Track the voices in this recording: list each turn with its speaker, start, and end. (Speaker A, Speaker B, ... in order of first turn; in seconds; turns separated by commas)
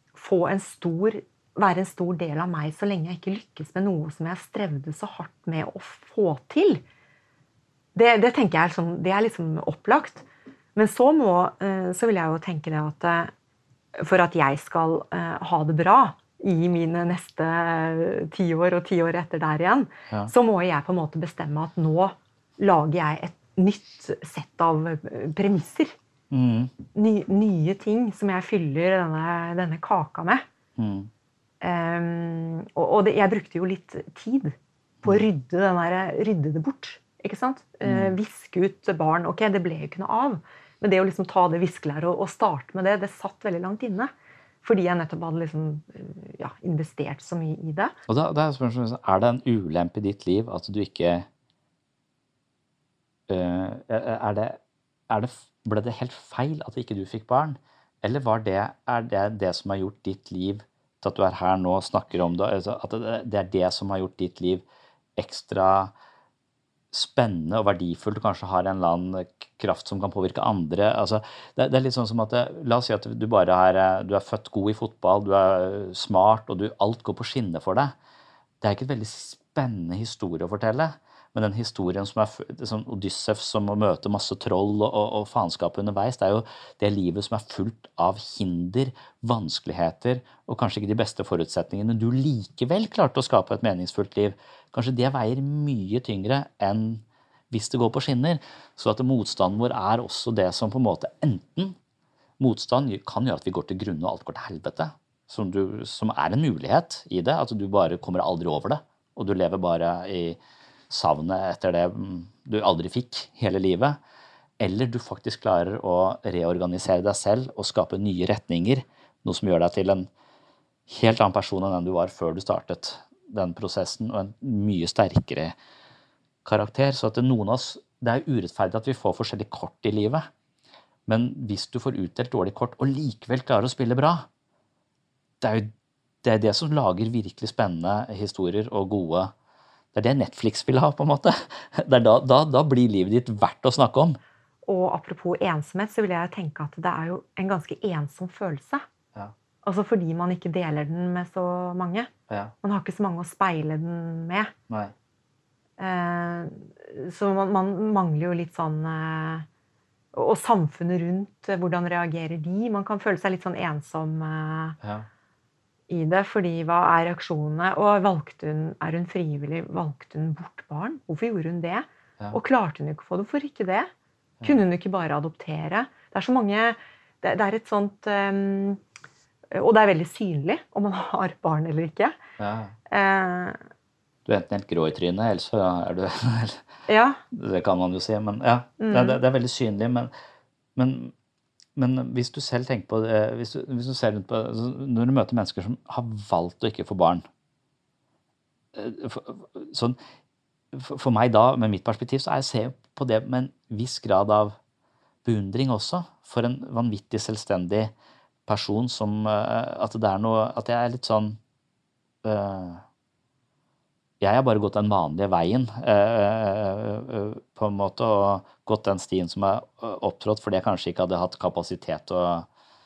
Speaker A: 0.1-6.8, Speaker A: 7.9-13.3, Speaker A: 14.0-25.9, Speaker B: 26.3-26.7, Speaker A: 26.9-30.4, Speaker B: 30.8-31.1, Speaker A: 31.6-44.1, Speaker B: 37.8-38.1, Speaker A: 44.6-47.9, Speaker B: 48.1-51.3, Speaker B: 53.3-64.6, Speaker B: 65.2-65.9, Speaker B: 66.9-77.9, Speaker B: 78.6-101.8, Speaker B: 102.4-110.4, Speaker B: 110.9-114.0, Speaker B: 114.6-120.1, Speaker B: 120.9-125.5, Speaker B: 126.4-130.2, Speaker B: 131.1-134.3, Speaker B: 135.4-135.7, Speaker B: 136.2-139.3, Speaker B: 139.9-144.2, Speaker A: 144.7-148.8, Speaker A: 149.6-152.1, Speaker A: 152.6-154.5, Speaker A: 155.8-159.5, Speaker A: 160.1-164.8, Speaker B: 164.8-165.1, Speaker A: 165.9-173.9, Speaker A: 174.4-178.8, Speaker A: 179.5-182.2, Speaker B: 182.4-182.7, Speaker A: 182.9-183.6, Speaker B: 184.2-186.7, Speaker A: 186.9-187.2, Speaker B: 187.3-190.1, Speaker A: 188.8-189.2, Speaker B: 190.7-191.1, Speaker B: 191.8-197.2, Speaker B: 198.7-200.0, Speaker B: 200.7-204.6, Speaker B: 205.2-207.9, Speaker B: 208.4-211.4, Speaker B: 212.2-212.8, Speaker B: 214.2-222.5